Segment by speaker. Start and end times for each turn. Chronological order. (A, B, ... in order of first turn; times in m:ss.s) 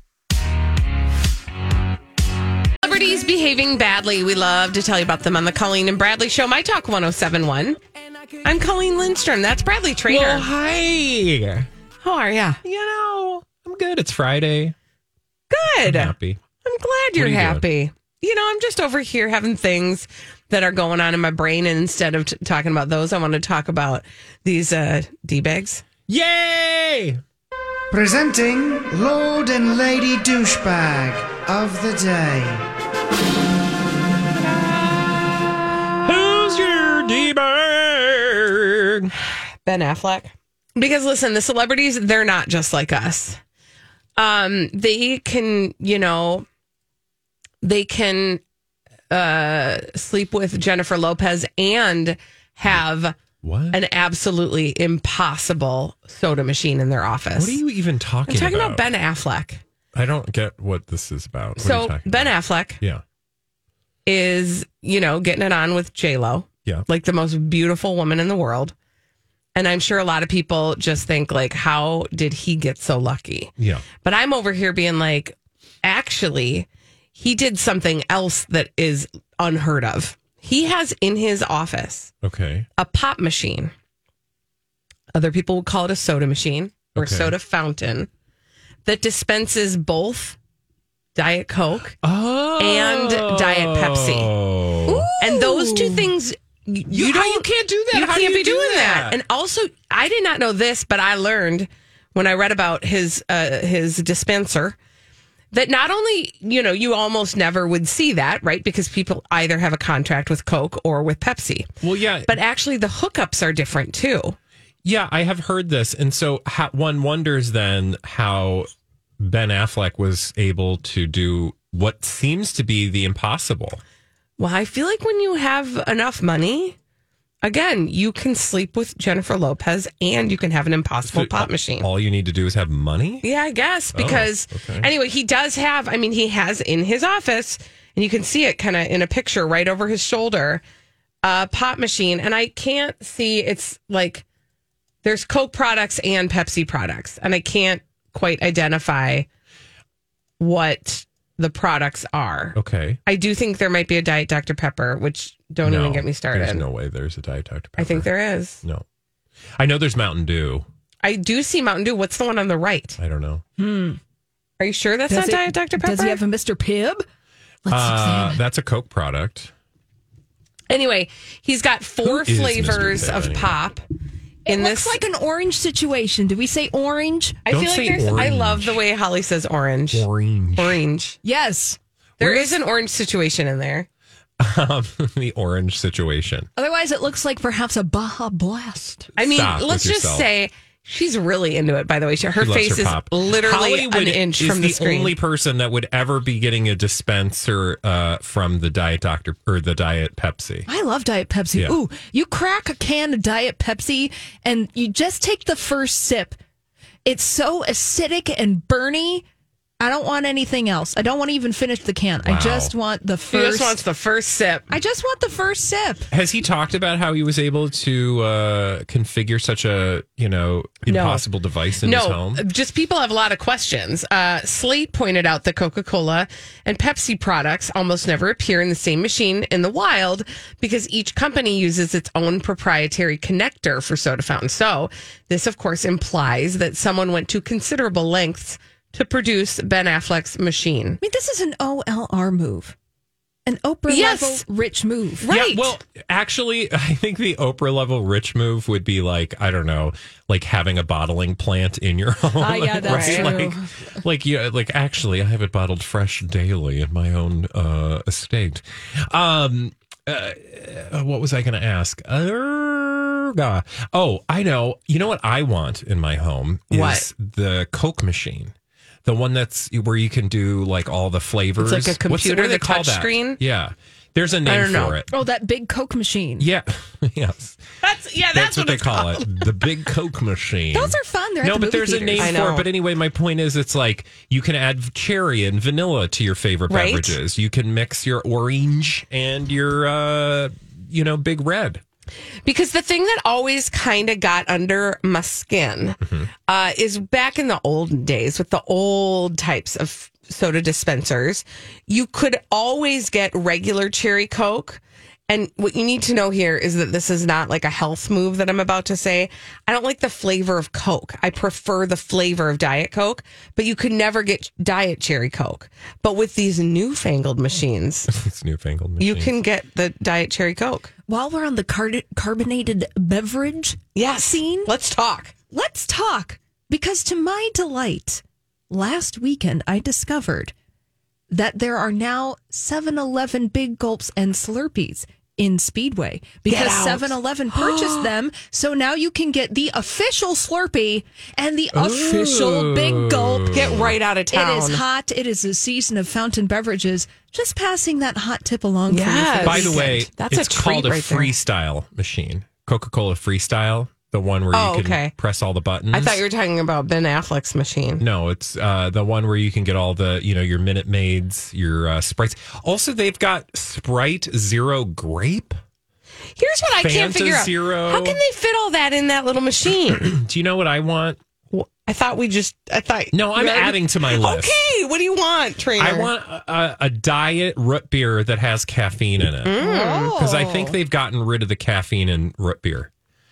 0:02.8-0:07.8 A
0:08.4-0:10.5 A
0:10.1-0:11.7 B
0:12.0-0:12.6 A
0:12.6-0:14.7 B
0:15.5-0:25.8 A
0:15.8-0:16.4 B
0:17.1-0:17.6 B
0:26.1-0:27.2 B
0:27.9-0:32.7 C
0:34.8-0:35.3 B
0:36.0-0:39.1 B
0:39.6-0:43.4 A
0:44.2-0:46.4 A
0:47.6-0:48.4 A
0:49.1-0:53.2 A
0:53.4-0:53.8 B
0:53.7-0:57.6 A
0:57.3-0:58.9 B
0:58.3-0:59.6 A
0:59.9-1:03.0 B
1:01.6-1:02.8 A
1:04.0-1:08.7 A
1:09.5-1:22.1 A
1:13.6-1:13.8 B
1:22.2-1:22.7 B
1:22.8-1:23.7 A
1:25.1-1:28.1 A
1:26.9-1:27.3 B
1:28.8-1:30.4 A
1:31.1-1:32.0 A
1:32.0-1:35.1 B
1:32.6-1:34.3 A
1:34.8-1:36.1 D
1:35.2-1:44.8 A
1:36.9-1:39.2 B
1:45.5-1:51.7 A
1:51.8-1:52.4 B
1:52.3-1:54.4 A
1:54.8-1:58.7 B
1:59.2-2:03.8 B
2:04.4-2:06.8 A
2:07.4-2:11.9 A
2:11.0-2:13.2 B
2:13.2-2:20.6 A
2:13.9-2:14.9 B
2:21.2-2:24.2 A
2:25.0-2:29.3 A
2:30.4-2:36.6 A
2:32.5-2:33.0 B
2:35.6-2:38.8 B
2:37.8-2:38.6 A
2:39.6-2:40.6 B
2:41.0-2:43.0 A
2:43.0-2:43.4 B
2:43.6-2:44.0 D
2:44.6-2:46.2 A
2:45.1-2:47.0 D
2:47.6-2:48.4 D
2:47.7-2:49.5 B
2:50.7-2:53.8 A
2:52.0-2:53.6 B
2:54.4-2:57.4 D
2:54.5-2:55.0 A
2:57.4-3:01.2 A
2:57.5-2:58.8 B
2:59.9-3:00.8 B
3:01.2-3:01.8 D
3:02.2-3:03.9 A
3:04.4-3:06.5 B
3:06.6-3:09.1 D
3:09.2-3:10.3 B
3:09.2-3:15.2 A
3:12.4-3:20.7 B
3:20.7-3:26.4 D
3:27.0-3:29.2 D
3:29.8-3:33.8 D
3:32.2-3:32.7 B
3:33.3-3:34.7 A
3:34.7-3:36.1 D
3:36.1-3:42.4 B
3:40.8-3:41.2 A
3:41.8-4:01.0 A
4:01.0-4:02.7 D
4:03.4-4:05.2 D
4:03.9-4:04.4 A
4:05.2-4:05.7 A
4:05.3-4:28.5 B
4:12.4-4:13.7 D
4:12.8-4:13.3 A
4:26.7-4:27.1 A
4:29.0-4:35.1 B
4:31.6-4:33.4 A
4:34.4-4:35.0 A
4:35.1-4:36.5 D
4:36.4-4:37.6 B
4:37.8-4:39.6 A
4:38.3-4:51.8 B
4:40.7-4:42.4 D
4:42.2-4:42.7 A
4:46.7-4:47.2 A
4:52.4-5:18.1 A
4:56.0-4:56.3 B
5:18.1-5:19.4 B
5:19.0-5:20.9 A
5:21.1-5:24.7 D
5:23.9-5:25.3 A
5:25.5-5:30.5 D
5:31.3-5:43.7 D
5:36.4-5:38.1 A
5:41.7-5:44.0 B
5:43.5-5:44.8 A
5:44.3-5:50.0 D
5:48.9-5:51.3 A
5:49.4-5:56.2 B
5:54.5-5:55.1 A
5:55.9-5:58.0 A
5:58.0-6:05.6 B
6:06.4-6:10.1 A
6:06.8-6:08.2 B
6:09.9-6:11.2 B
6:11.5-6:16.1 A
6:13.1-6:14.6 B
6:15.8-6:22.9 B
6:19.4-6:20.2 A
6:19.6-6:20.8 D